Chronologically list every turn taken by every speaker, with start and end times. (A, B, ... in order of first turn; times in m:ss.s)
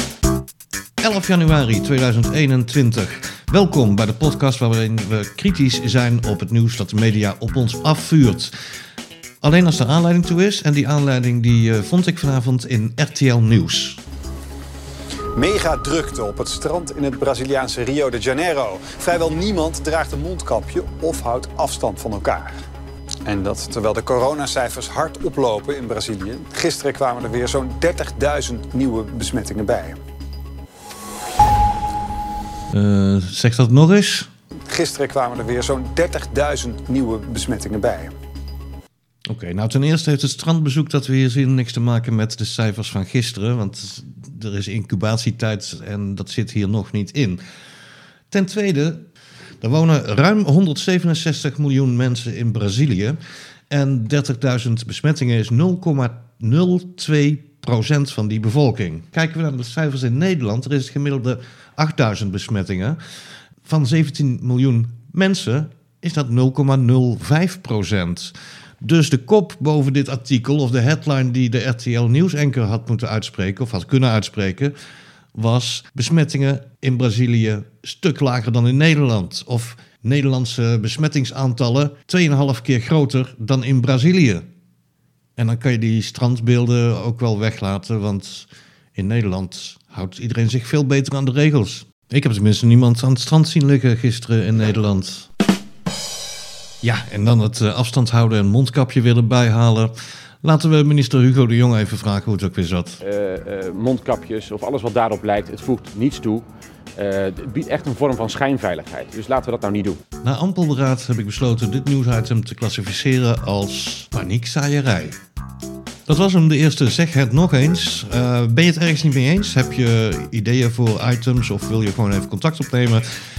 0:01.0-0:08.5 A
0:09.4-0:14.0 A
0:15.3-0:22.5 B
0:23.2-0:30.0 B
0:32.7-0:34.3 A
0:34.7-0:38.1 B
0:39.3-0:47.4 A
0:48.3-0:49.0 A
0:49.6-0:53.2 A
0:53.7-1:03.0 A
1:03.6-1:14.7 A
1:15.3-1:24.4 A
1:25.4-1:35.3 A
1:36.8-1:43.0 A
1:43.0-1:46.4 C
1:47.0-1:50.0 C
1:50.2-1:55.2 A
1:56.1-2:03.0 A